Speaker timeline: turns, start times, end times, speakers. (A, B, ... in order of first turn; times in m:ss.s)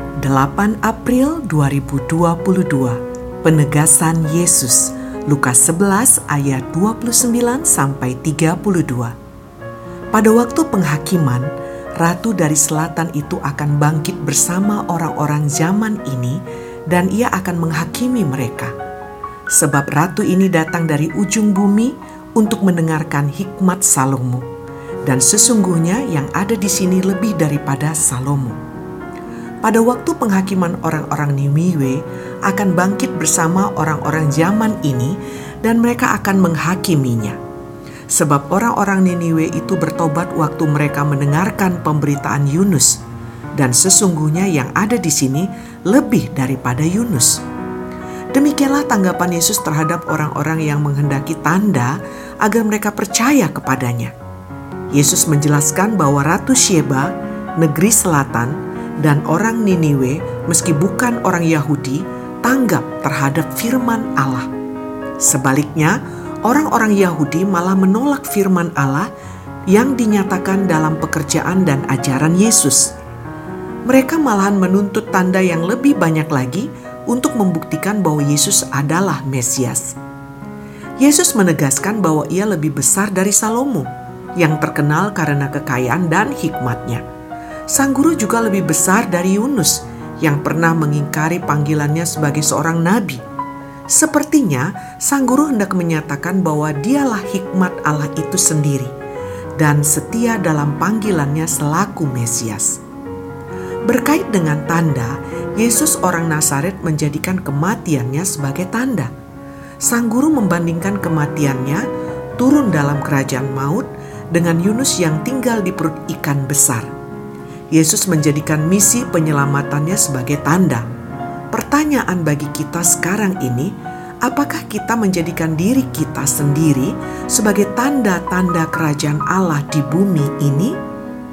0:00.2-0:09.1 A
0:10.1-0:18.7 A
0:19.5-0:24.5 A
0:25.0-0:28.6 A
0:29.6-0:37.4 A
0:38.1-0:43.0 A
0:43.5-0:47.4 A
0:48.3-0:54.1 A
0:54.9-1:04.5 A
1:05.2-1:09.1 A
1:09.7-1:12.9 A
1:13.8-1:20.0 A
1:21.0-1:27.0 A
1:27.7-1:33.2 A
1:33.9-1:38.9 A
1:39.6-1:42.8 A
1:43.8-1:49.1 A
1:49.8-1:51.9 A
1:52.4-1:56.9 A
1:57.7-2:00.9 A
2:01.5-2:10.8 A